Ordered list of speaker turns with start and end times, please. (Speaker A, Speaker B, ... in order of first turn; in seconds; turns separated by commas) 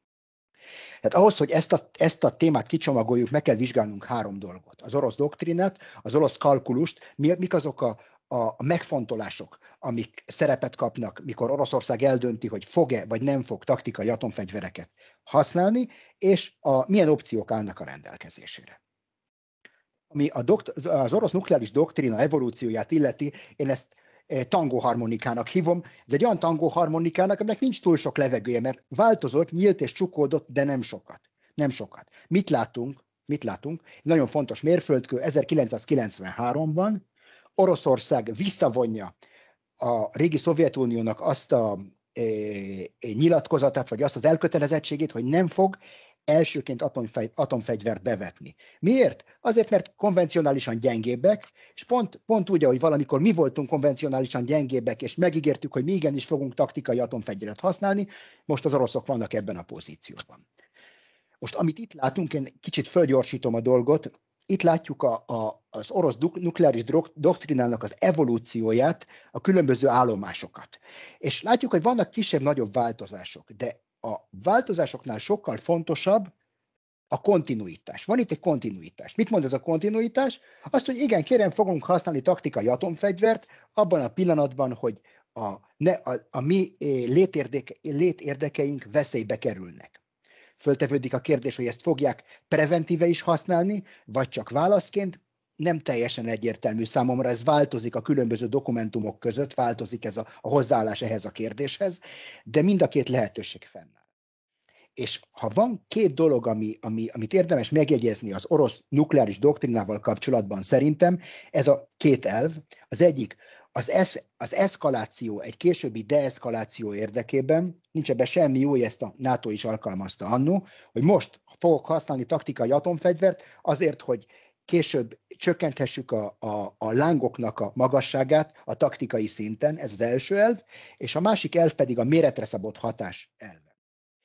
Speaker A: 1.0-18.8, Speaker A: 20.1-37.0, Speaker A: 37.6-39.1, Speaker A: 39.8-60.4, Speaker A: 61.4-76.3, Speaker A: 77.1-90.0, Speaker A: 90.6-103.9, Speaker A: 105.0-133.7